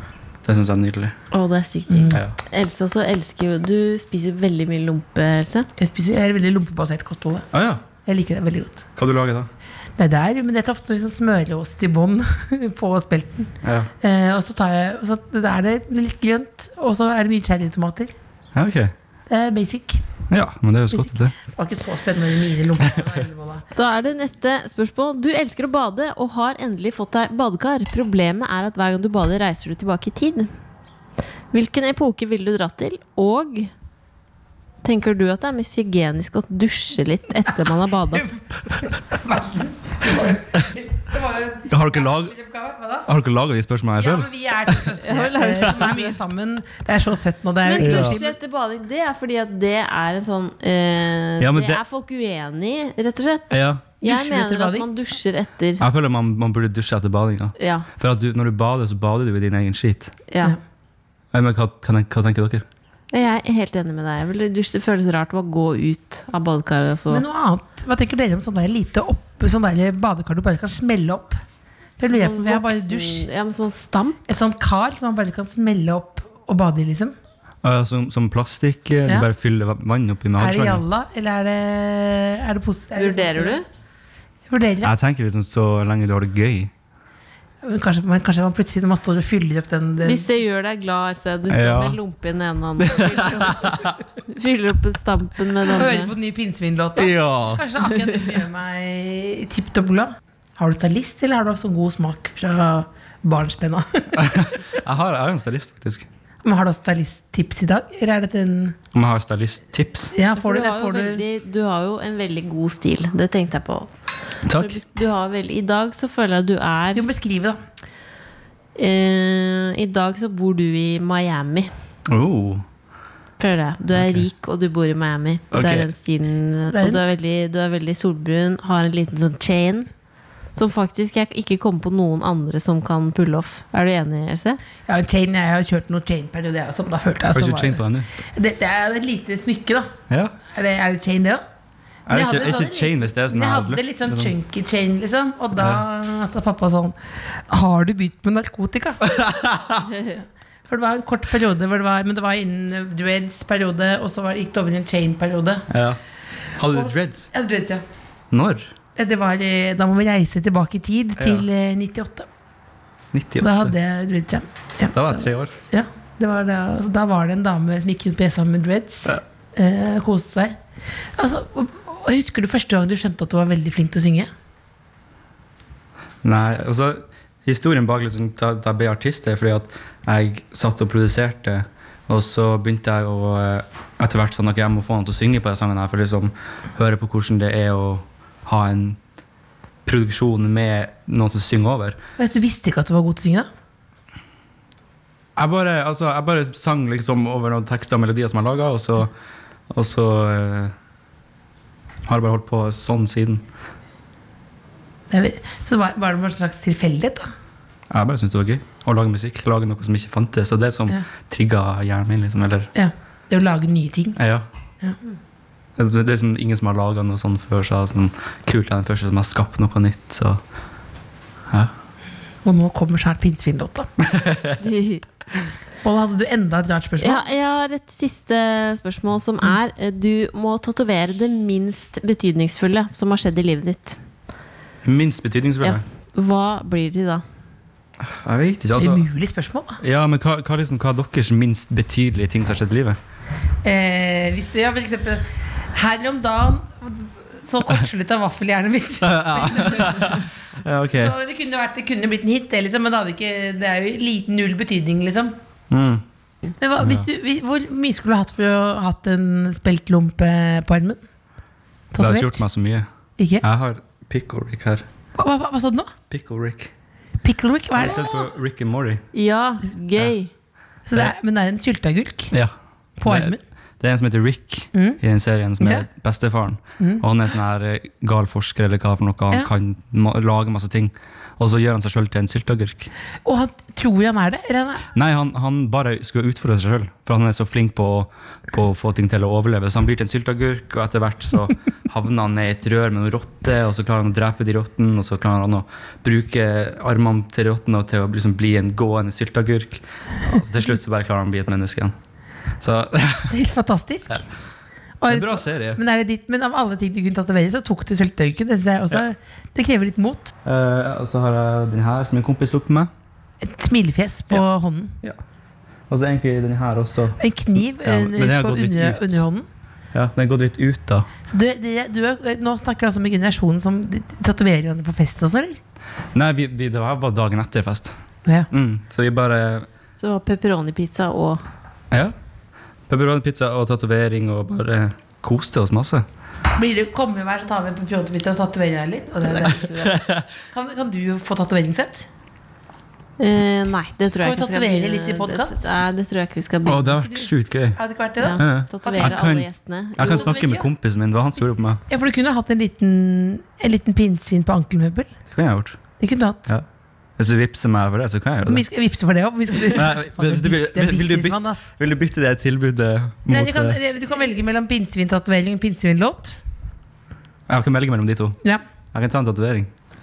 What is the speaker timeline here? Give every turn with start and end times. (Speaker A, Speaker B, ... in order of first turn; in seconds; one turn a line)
Speaker A: 0.4-1.1
Speaker B: 1.3-5.7
Speaker C: 1.9-2.2
Speaker A: 2.1-2.4
Speaker C: 5.8-7.5
Speaker A: 7.5-7.8
Speaker C: 8.0-8.8
Speaker A: 8.9-9.5
Speaker C: 10.0-18.1
Speaker A: 13.6-13.9
Speaker A: 18.5-18.9
Speaker C: 19.3-20.0
Speaker A: 20.3-21.3
Speaker C: 20.9-23.6
Speaker B: 23.7-30.5
Speaker B: 31.5-33.7
Speaker B: 34.8-38.3
Speaker C: 38.1-43.1
Speaker A: 41.7-42.3
Speaker A: 43.0-44.8
Speaker C: 44.0-48.4
Speaker B: 45.0-46.2
Speaker B: 47.6-55.8
Speaker A: 47.8-48.2
Speaker A: 51.4-51.8
Speaker A: 53.5-53.9
Speaker C: 54.0-54.9
Speaker A: 55.8-60.1
Speaker B: 57.6-57.9
Speaker B: 60.3-60.5
Speaker A: 61.3-62.6
Speaker B: 63.1-67.2
Speaker C: 67.1-71.4
Speaker C: 72.0-73.2
Speaker B: 72.1-74.2
Speaker C: 74.3-77.1
Speaker A: 77.6-80.8
Speaker C: 80.4-83.6
Speaker B: 83.0-83.6
Speaker C: 84.5-84.9
Speaker A: 84.8-86.7
Speaker C: 87.6-90.2
Speaker B: 90.0-96.1
Speaker A: 91.5-92.0
Speaker A: 92.8-94.0
Speaker C: 95.6-104.5
Speaker A: 97.0-97.6
Speaker A: 104.2-106.1
Speaker C: 106.4-108.8
Speaker A: 108.9-110.1
Speaker C: 110.1-111.2
Speaker B: 110.3-113.9
Speaker A: 114.4-114.8
Speaker B: 114.5-117.0
Speaker C: 116.9-117.6
Speaker B: 118.8-121.7
Speaker A: 122.1-122.6
Speaker B: 123.4-129.9
Speaker A: 123.9-124.2
Speaker A: 125.5-125.9
Speaker C: 126.7-127.0
Speaker B: 130.5-134.6
Speaker C: 134.9-137.8
Speaker A: 137.3-138.1
Speaker C: 138.3-139.9
Speaker A: 140.1-140.3
Speaker C: 140.5-141.4
Speaker A: 142.1-144.3
Speaker C: 142.1-149.2
Speaker A: 145.6-145.8
Speaker A: 149.0-149.9
Speaker C: 150.0-155.7
Speaker A: 155.7-156.0
Speaker A: 156.6-157.3
Speaker C: 156.7-157.8
Speaker A: 158.3-158.7
Speaker C: 158.9-162.3
Speaker A: 161.2-161.4
Speaker A: 163.1-163.7
Speaker C: 163.4-170.6
Speaker A: 164.9-165.5
Speaker C: 171.2-174.3
Speaker A: 176.2-189.0
Speaker A: 189.8-192.0
Speaker C: 192.2-193.5
Speaker A: 195.3-199.1
Speaker A: 199.7-200.7
Speaker A: 202.1-203.4
Speaker C: 205.1-207.3
Speaker A: 207.9-212.7
Speaker C: 212.7-214.2
Speaker A: 214.2-214.4
Speaker A: 215.8-220.4
Speaker C: 222.4-223.9
Speaker A: 224.0-224.6
Speaker B: 224.6-225.0
Speaker C: 225.8-227.2
Speaker B: 227.0-234.0
Speaker A: 234.8-235.8
Speaker B: 235.6-237.2
Speaker A: 238.0-239.0
Speaker C: 238.8-239.8
Speaker A: 239.8-243.0
Speaker C: 243.6-250.2
Speaker A: 249.0-251.2
Speaker C: 250.9-255.3
Speaker A: 255.7-256.0
Speaker C: 256.6-261.0
Speaker A: 256.8-257.1
Speaker C: 261.9-262.4
Speaker A: 262.0-262.9
Speaker C: 263.2-263.4
Speaker A: 263.4-264.8
Speaker C: 265.1-265.9
Speaker A: 266.1-266.7
Speaker C: 267.2-268.3
Speaker A: 267.7-269.0
Speaker B: 269.1-270.3
Speaker C: 270.9-272.3
Speaker A: 272.3-282.9
Speaker C: 273.0-273.4
Speaker C: 274.7-275.0
Speaker C: 275.6-275.9
Speaker C: 283.2-284.8
Speaker A: 284.9-301.9
Speaker A: 302.6-303.3
Speaker C: 303.3-304.2
Speaker C: 305.0-310.3
Speaker A: 305.1-305.8
Speaker A: 310.4-312.9
Speaker C: 313.4-314.9
Speaker A: 315.9-319.2
Speaker C: 317.2-319.5
Speaker A: 319.9-321.1
Speaker C: 321.2-325.6
Speaker A: 326.1-327.9
Speaker A: 328.5-329.7
Speaker B: 330.0-331.4
Speaker A: 332.9-336.1
Speaker C: 336.6-339.9
Speaker B: 339.2-339.9
Speaker A: 339.4-340.3
Speaker C: 340.5-342.1
Speaker B: 343.2-347.0
Speaker C: 344.2-345.6
Speaker A: 346.6-347.8
Speaker C: 347.0-349.2
Speaker B: 348.2-350.4
Speaker A: 348.4-351.8
Speaker C: 350.0-350.7
Speaker C: 351.9-355.1
Speaker A: 355.3-355.8
Speaker C: 356.0-356.5
Speaker A: 357.2-358.6
Speaker C: 358.4-361.6
Speaker A: 359.6-363.8
Speaker C: 363.3-366.4
Speaker A: 367.5-368.4
Speaker A: 368.9-369.7